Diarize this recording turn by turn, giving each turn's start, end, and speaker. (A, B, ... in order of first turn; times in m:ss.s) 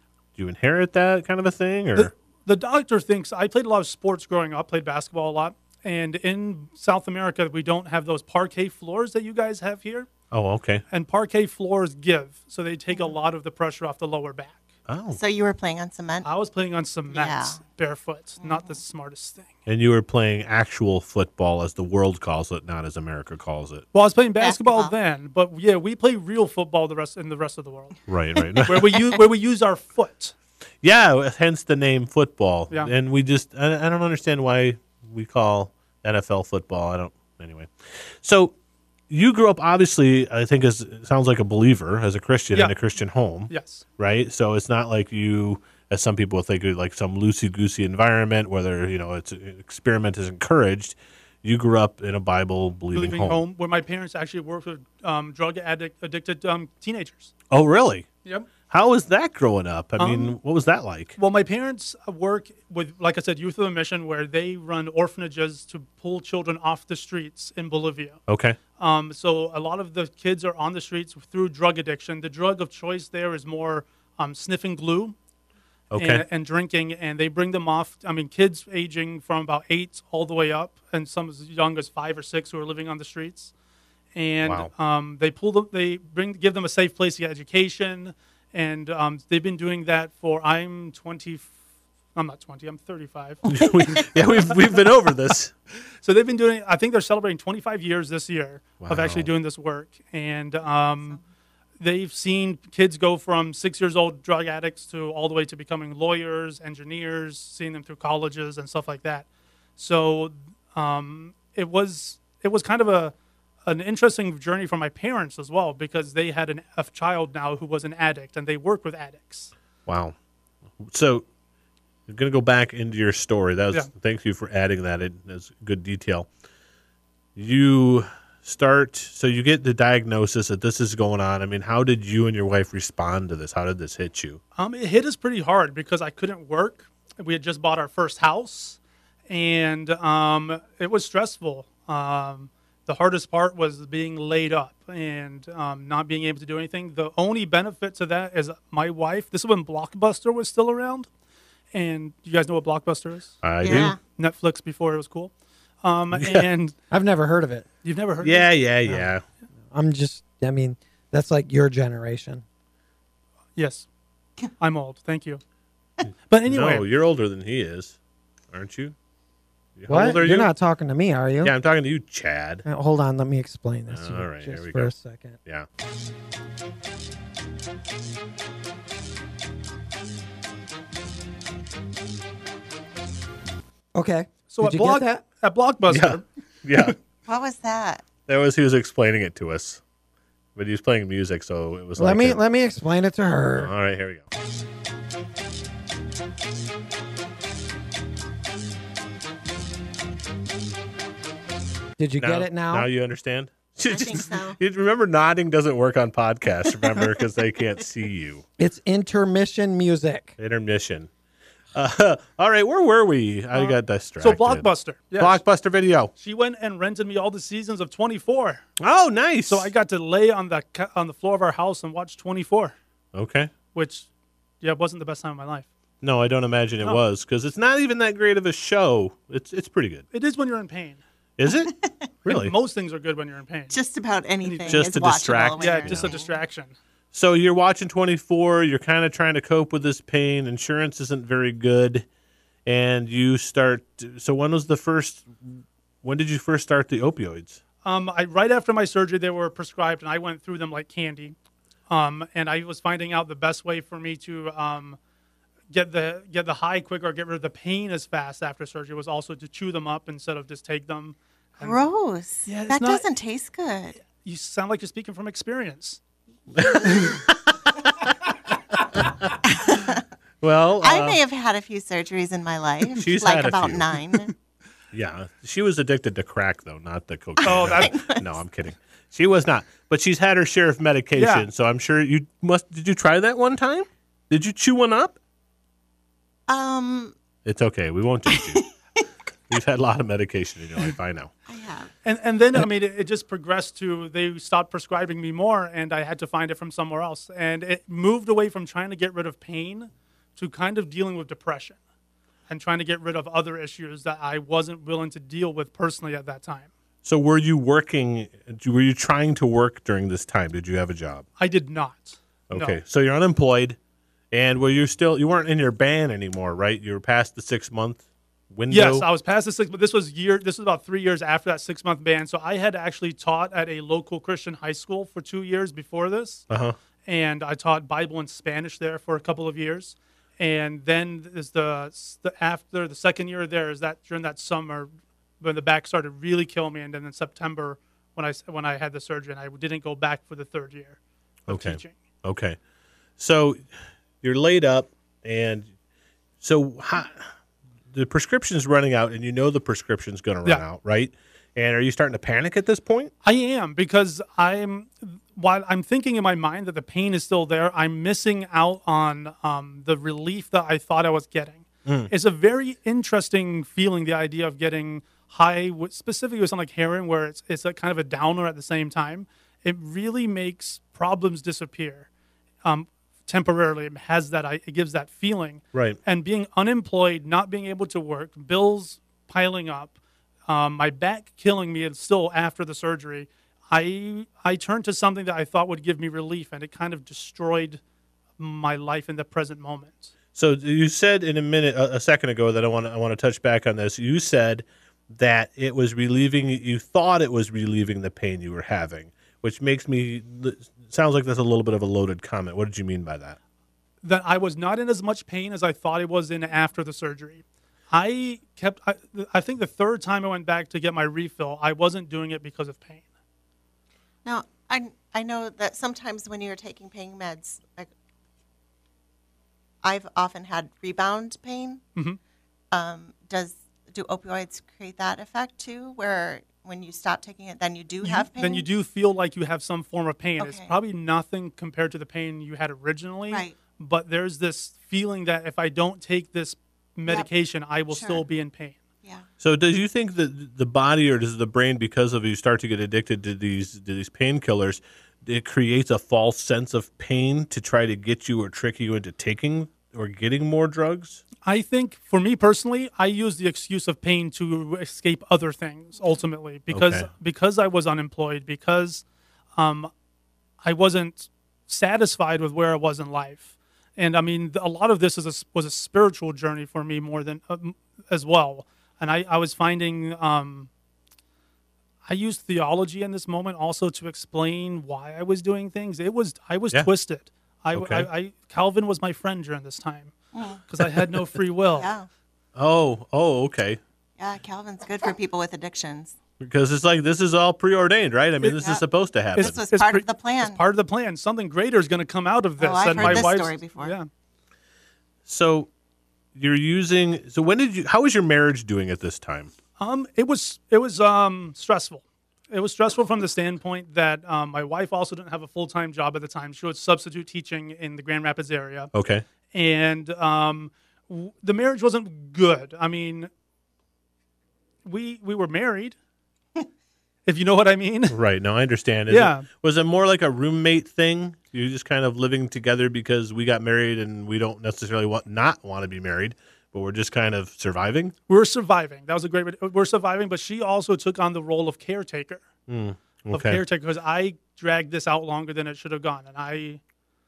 0:00.4-0:02.1 A
0:02.0-0:10.1 B
0:10.3-0:10.8 A
0:10.9-0:14.6 B
0:14.9-0:15.2 A
0:15.1-0:16.3 C
0:16.2-0:19.5 B
0:17.1-0:17.6 C
0:18.4-0:18.8 C
0:19.7-0:23.8 A
0:23.9-0:28.0 B
0:24.4-0:24.9 C
0:28.1-0:28.9 A
0:28.6-0:30.3 B
0:30.8-0:38.5 A
0:39.1-0:53.4 A
0:43.5-0:43.8 B
0:52.9-0:57.3 B
0:57.5-0:58.1 A
0:58.7-1:01.2 A
1:00.0-1:00.3 B
1:01.2-1:08.2 B
1:08.3-1:08.6 A
1:08.8-1:15.1 B
1:15.9-1:16.2 A
1:15.9-1:23.5 B
1:24.1-1:31.5 B
1:24.4-1:24.7 A
1:32.1-1:33.4 B
1:33.4-1:35.5 A
1:36.0-1:41.2 B
1:38.8-1:39.3 A
1:41.8-1:53.1 B
1:53.6-1:59.5 B
1:59.9-2:00.1 A
2:00.8-2:01.2 A
2:02.1-2:06.3 A
2:07.4-2:14.4 A
2:14.5-2:18.8 B
2:19.3-2:31.1 B
2:31.7-2:35.3 B
2:33.4-2:34.0 A
2:33.6-2:34.0 C
2:35.8-2:36.7 B
2:36.1-2:36.5 A
2:36.9-2:37.6 D
2:37.8-2:38.5 B
2:38.2-2:39.2 A
2:39.7-2:42.4 D
2:43.6-2:43.8 B
2:44.6-2:45.4 B
2:46.3-2:46.8 B
2:46.4-2:48.0 A
2:48.5-2:48.9 A
2:49.8-2:50.5 A
2:49.9-2:51.5 D
2:51.4-2:52.6 A
2:52.6-2:55.4 D
2:53.9-2:54.9 A
3:03.9-3:05.2 D
3:04.5-3:06.9 B
3:05.9-3:06.9 A
3:07.2-3:08.0 C
3:08.3-3:09.8 A
3:10.6-3:12.4 A
3:12.0-3:13.7 D
3:13.6-3:14.2 A
3:22.0-3:22.9 D
3:22.2-3:28.4 A
3:23.9-3:24.6 C
3:28.6-3:30.4 D
3:30.4-3:31.1 A
3:31.7-3:36.1 A
3:33.5-3:35.4 B
3:36.2-3:38.6 B
3:38.8-3:39.7 A
3:39.5-3:42.7 B
3:43.1-3:43.5 A
3:43.7-3:44.1 B
3:44.6-3:45.7 B
3:46.0-3:50.0 A
3:50.1-3:51.0 B
3:51.4-3:51.7 A
3:51.7-3:52.1 C
3:52.2-3:52.5 A
3:52.2-3:53.8 B
3:53.7-3:56.3 C
3:54.4-3:56.7 B
3:54.7-3:56.1 A
3:57.1-4:02.0 A
4:02.6-4:07.6 A
4:07.8-4:11.4 B
4:11.9-4:15.0 B
4:15.7-4:21.8 B
4:21.6-4:24.0 C
4:22.4-4:23.0 B
4:24.1-4:26.0 B
4:26.6-4:27.3 A
4:29.5-4:30.0 C
4:30.4-4:31.2 A
4:30.8-4:34.3 C
4:32.9-4:33.8 A
4:34.9-4:45.2 A
4:37.4-4:38.3 C
4:37.4-4:38.0 B
4:41.1-4:41.5 B
4:46.5-4:47.1 C
4:47.4-4:48.6 A
4:49.5-4:51.3 A
4:51.5-4:51.9 C
4:52.0-5:01.8 B
5:02.5-5:06.7 B
5:07.0-5:11.2 A
5:11.4-5:12.8 B
5:12.5-5:13.8 A
5:14.3-5:19.1 A
5:18.7-5:26.4 B
5:26.5-5:26.8 A
5:27.0-5:41.9 B
5:41.5-5:42.6 A
5:43.2-5:43.6 A
5:44.2-5:45.7 A
5:46.4-5:47.3 A
5:47.9-5:53.1 A
5:53.2-6:12.1 B
6:01.8-6:02.1 A
6:12.6-6:19.9 B
6:20.5-6:27.8 B
6:28.4-6:30.1 B
6:30.3-6:43.4 A
6:44.0-6:53.0 B
6:54.2-6:57.9 C
6:59.8-7:01.8 C
7:02.7-7:08.7 C
7:08.0-7:18.8 B
7:10.4-7:10.7 C
7:17.9-7:18.2 C
7:19.4-7:31.2 A
7:31.4-7:39.0 B
7:36.7-7:37.1 A
7:39.6-7:39.9 B
7:40.6-7:50.7 B
7:52.0-8:00.1 B
7:57.7-7:58.1 A
8:00.3-8:00.6 C
8:00.7-8:01.9 B
8:00.8-8:01.1 A
8:01.7-8:02.1 C
8:02.6-8:03.8 A
8:04.2-8:06.1 C
8:06.4-8:09.6 A
8:08.4-8:08.8 C
8:09.3-8:10.6 C
8:09.4-8:14.1 B
8:12.6-8:13.9 C
8:12.9-8:13.3 A
8:15.2-8:15.7 A
8:16.3-8:19.5 A
8:19.8-8:28.9 B
8:28.9-8:29.2 A
8:29.5-8:33.3 B
8:34.8-8:35.9 B
8:37.2-8:38.2 B
8:38.1-8:48.1 A
8:39.1-8:39.5 B
8:48.3-8:52.4 B
8:52.7-8:53.6 A
8:53.3-8:56.8 B